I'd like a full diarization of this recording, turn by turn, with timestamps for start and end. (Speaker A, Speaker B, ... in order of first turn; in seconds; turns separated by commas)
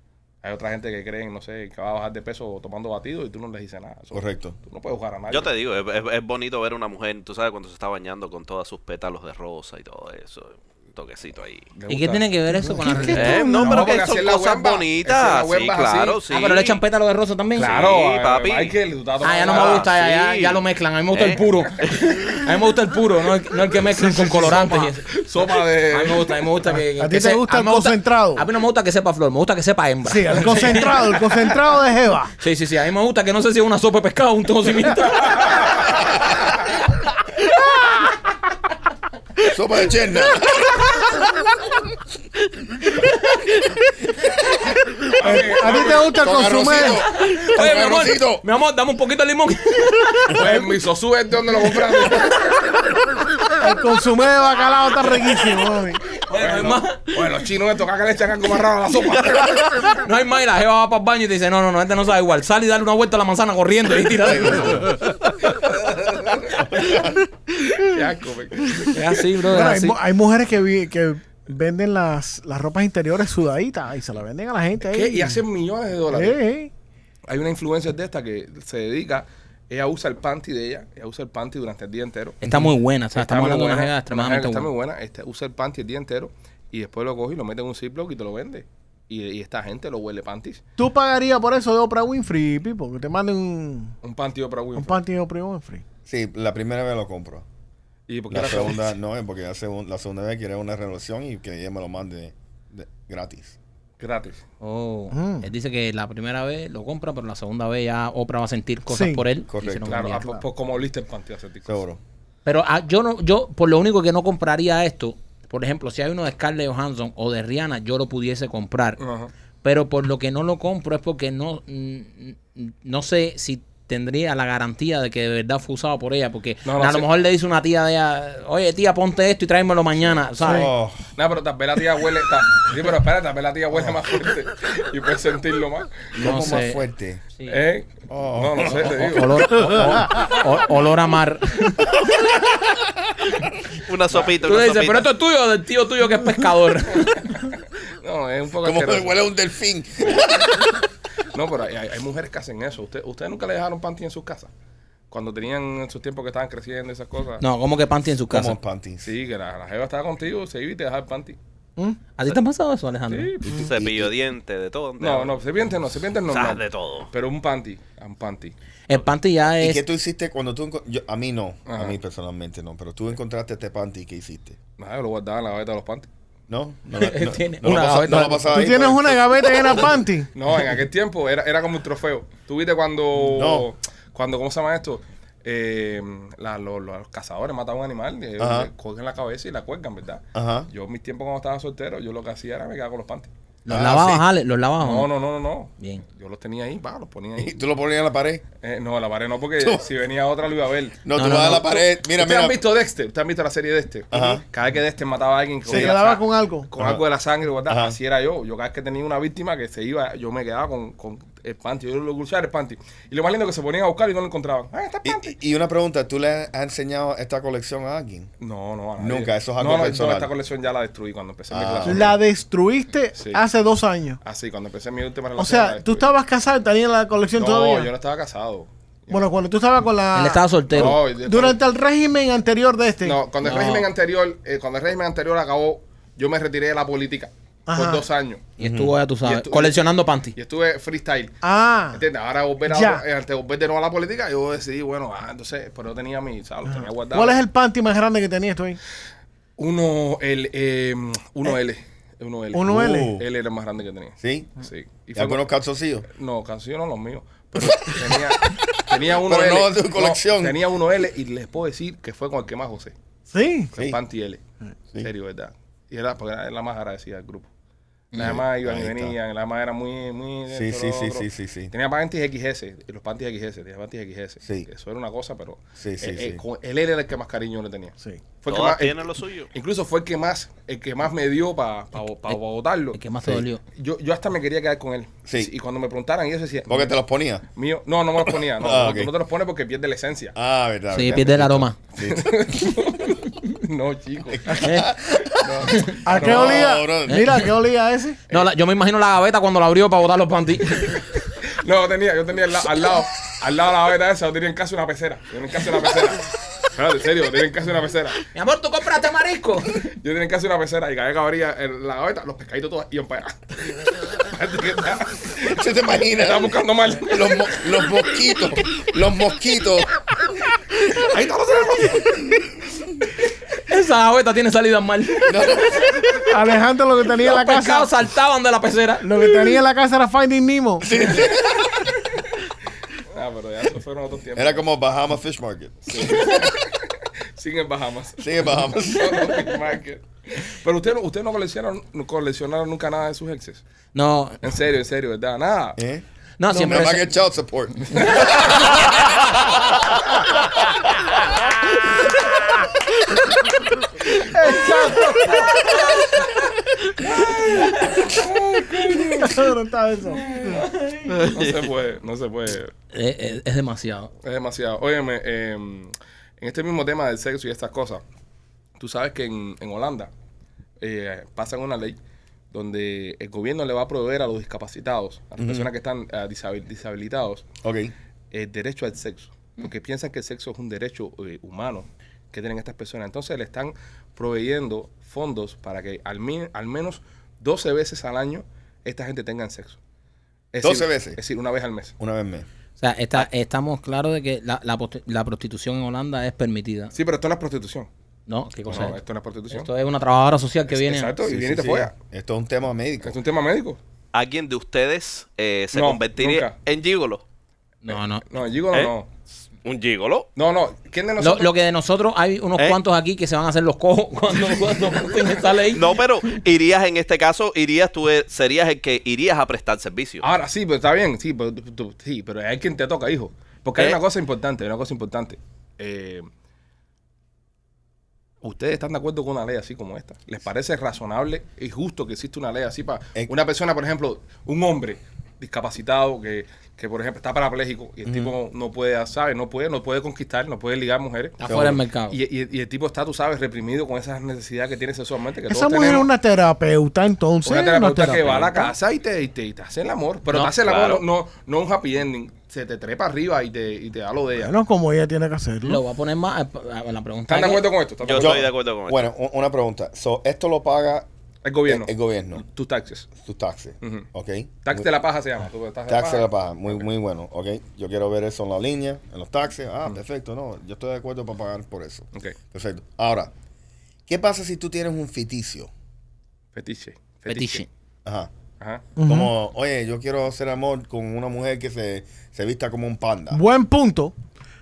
Speaker A: 0.4-5.5, Speaker B: 4.1-4.6, Speaker C: 5.3-11.7, Speaker A: 11.7-12.2, Speaker D: 11.9-13.7, Speaker E: 12.6-13.8, Speaker C: 13.1-16.8, Speaker A: 13.5-16.2, Speaker D: 16.3-17.8, Speaker A: 17.6-19.9, Speaker C: 17.6-18.7, Speaker D: 19.2-25.1, Speaker C: 19.4-22.2, Speaker E: 23.9-24.9, Speaker A: 25.1-26.4, Speaker D: 25.9-31.5, Speaker E: 27.0-28.4, Speaker E: 30.1-32.3, Speaker D: 32.4-35.7, Speaker B: 39.4-40.9, Speaker A: 45.1-46.3, Speaker E: 45.2-47.0, Speaker B: 46.1-48.4, Speaker D: 47.1-50.6, Speaker A: 50.3-52.9, Speaker E: 53.6-56.0, Speaker D: 56.3-57.1, Speaker A: 56.4-59.9, Speaker D: 59.8-65.0, Speaker B: 64.2-65.0, Speaker A: 65.6-66.6, Speaker B: 66.5-67.2, Speaker A: 67.7-69.0, Speaker D: 68.9-70.0, Speaker E: 69.5-75.4, Speaker A: 74.8-76.4, Speaker E: 76.1-76.7, Speaker A: 77.3-82.4, Speaker D: 82.4-84.7, Speaker A: 83.1-90.6, Speaker E: 90.8-94.0, Speaker A: 94.0-95.0, Speaker E: 94.8-95.8, Speaker B: 96.0-97.5, Speaker A: 98.1-99.0, Speaker B: 98.3-103.6, Speaker A: 104.0-104.4, Speaker D: 104.6-110.3, Speaker E: 105.1-105.5, Speaker E: 108.9-109.2, Speaker B: 109.5-110.0, Speaker A: 109.9-111.8, Speaker B: 111.7-112.0, Speaker D: 112.5-119.0, Speaker A: 119.0-119.3, Speaker D: 119.6-130.7, Speaker A: 126.6-127.1, Speaker B: 130.4-131.0, Speaker E: 130.4-130.7, Speaker A: 131.2-136.1, Speaker B: 136.1-137.2, Speaker D: 136.2-136.8, Speaker A: 137.5-139.9, Speaker B: 138.1-139.1, Speaker D: 138.8-142.3, Speaker C: 143.9-145.1, Speaker D: 144.3-147.5, Speaker A: 148.0-149.2, Speaker B: 148.6-150.7, Speaker A: 151.3-154.5, Speaker A: 155.1-157.4, Speaker D: 157.4-158.6, Speaker B: 158.3-159.1, Speaker A: 159.0-161.4, Speaker D: 162.2-163.3, Speaker A: 163.1-163.6, Speaker B: 163.4-164.1, Speaker C: 163.5-165.3, Speaker A: 165.0-168.5, Speaker C: 166.3-167.1, Speaker D: 168.9-169.8, Speaker B: 169.6-174.6, Speaker A: 171.7-172.0, Speaker A: 174.8-176.1, Speaker B: 176.5-179.9, Speaker D: 176.9-178.7, Speaker E: 178.5-180.3, Speaker A: 180.3-193.3, Speaker B: 183.3-183.7, Speaker B: 188.4-188.7, Speaker B: 190.3-190.7, Speaker D: 193.6-195.1, Speaker B: 193.7-194.2, Speaker A: 194.8-197.6, Speaker D: 195.8-196.1, Speaker B: 197.4-198.4, Speaker A: 198.6-215.4, Speaker B: 199.6-199.8, Speaker B: 201.0-202.6, Speaker D: 201.1-201.7, Speaker B: 204.1-204.4, Speaker B: 205.7-205.9, Speaker E: 205.7-206.7, Speaker B: 207.7-207.9, Speaker B: 215.0-218.3, Speaker A: 218.4-222.1, Speaker B: 219.0-220.3, Speaker B: 221.5-222.2, Speaker E: 221.8-224.2, Speaker A: 223.1-223.4, Speaker A: 224.2-226.1, Speaker E: 225.4-227.9, Speaker A: 227.3-229.3, Speaker E: 229.1-233.2, Speaker D: 230.1-231.0, Speaker A: 230.7-231.6, Speaker A: 233.0-238.4, Speaker D: 233.4-233.9, Speaker E: 237.7-238.0, Speaker D: 238.6-240.3, Speaker B: 238.6-238.9, Speaker A: 239.2-241.4, Speaker E: 241.4-242.0, Speaker A: 241.9-247.4, Speaker E: 242.7-243.0, Speaker E: 246.7-248.8, Speaker A: 249.6-255.4, Speaker E: 252.5-253.1, Speaker B: 252.6-253.3, Speaker B: 254.2-254.5, Speaker B: 255.1-256.1, Speaker A: 256.1-262.9, Speaker B: 257.6-260.6, Speaker E: 263.3-263.7, Speaker A: 263.7-264.4, Speaker A: 265.0-267.5, Speaker D: 268.1-268.4, Speaker A: 268.1-283.0, Speaker B: 268.1-269.2, Speaker B: 270.5-271.7, Speaker B: 275.8-276.4, Speaker C: 278.5-279.5, Speaker D: 282.9-283.6, Speaker A: 283.7-286.9, Speaker B: 285.3-285.5, Speaker B: 286.7-287.4, Speaker A: 287.6-290.4, Speaker B: 288.2-289.1, Speaker B: 290.4-292.8, Speaker D: 290.9-291.8, Speaker A: 292.0-294.6, Speaker B: 294.3-297.4, Speaker D: 294.6-294.9, Speaker A: 295.2-296.8, Speaker D: 295.7-296.0, Speaker E: 296.1-298.2, Speaker D: 297.1-297.4, Speaker D: 298.3-301.1, Speaker A: 301.5-308.2, Speaker D: 308.3-309.9, Speaker A: 309.9-318.3, Speaker B: 315.4-319.9, Speaker A: 320.9-322.2, Speaker D: 323.7-326.3, Speaker B: 325.3-326.0, Speaker E: 326.3-327.9, Speaker D: 327.2-329.4, Speaker E: 329.0-330.9, Speaker B: 330.8-331.9, Speaker A: 333.1-334.7, Speaker B: 334.4-336.5, Speaker A: 335.9-343.6, Speaker B: 338.2-339.5, Speaker D: 343.9-344.4, Speaker A: 344.4-345.8, Speaker B: 345.8-348.6, Speaker D: 346.4-347.1, Speaker E: 346.5-346.8, Speaker A: 348.1-348.4, Speaker E: 354.3-355.7, Speaker D: 357.3-358.1, Speaker A: 357.9-359.5, Speaker E: 359.2-360.6, Speaker D: 360.2-361.3, Speaker C: 361.1-361.7, Speaker A: 361.3-362.7, Speaker D: 362.9-364.1, Speaker A: 364.2-368.0, Speaker A: 368.8-370.1, Speaker A: 370.8-372.0, Speaker A: 372.5-377.4, Speaker B: 375.4-375.7, Speaker B: 377.6-377.9, Speaker A: 378.3-389.8, Speaker A: 390.5-391.9, Speaker B: 390.6-391.2, Speaker B: 392.0-392.5, Speaker D: 392.8-396.9, Speaker A: 396.9-397.9, Speaker D: 398.3-399.0, Speaker A: 398.7-399.7, Speaker D: 399.5-401.1, Speaker A: 400.7-401.9, Speaker B: 401.2-403.2, Speaker A: 403.0-403.8, Speaker C: 404.1-407.2, Speaker A: 405.7-406.6, Speaker D: 407.9-408.3, Speaker A: 408.2-409.1, Speaker C: 409.6-410.3, Speaker A: 410.4-411.5, Speaker D: 411.2-416.0, Speaker C: 415.7-420.3, Speaker A: 420.2-426.3, Speaker A: 428.4-441.6, Speaker B: 438.1-438.3, Speaker D: 441.4-442.2, Speaker B: 441.4-441.8, Speaker A: 442.1-446.1, Speaker E: 445.5-448.7, Speaker A: 447.4-454.6, Speaker C: 450.6-451.0, Speaker E: 454.4-455.8, Speaker D: 455.6-457.6, Speaker A: 457.3-458.4, Speaker C: 458.0-459.1, Speaker B: 458.1-461.1, Speaker A: 461.4-463.1, Speaker B: 461.7-462.4, Speaker B: 463.2-464.9, Speaker A: 463.8-464.1, Speaker A: 464.6-466.9, Speaker B: 465.9-473.3, Speaker B: 474.1-475.7, Speaker A: 476.6-477.7, Speaker D: 477.3-477.7, Speaker B: 478.1-478.3, Speaker E: 479.0-479.3, Speaker B: 479.0-483.4, Speaker E: 483.3-484.1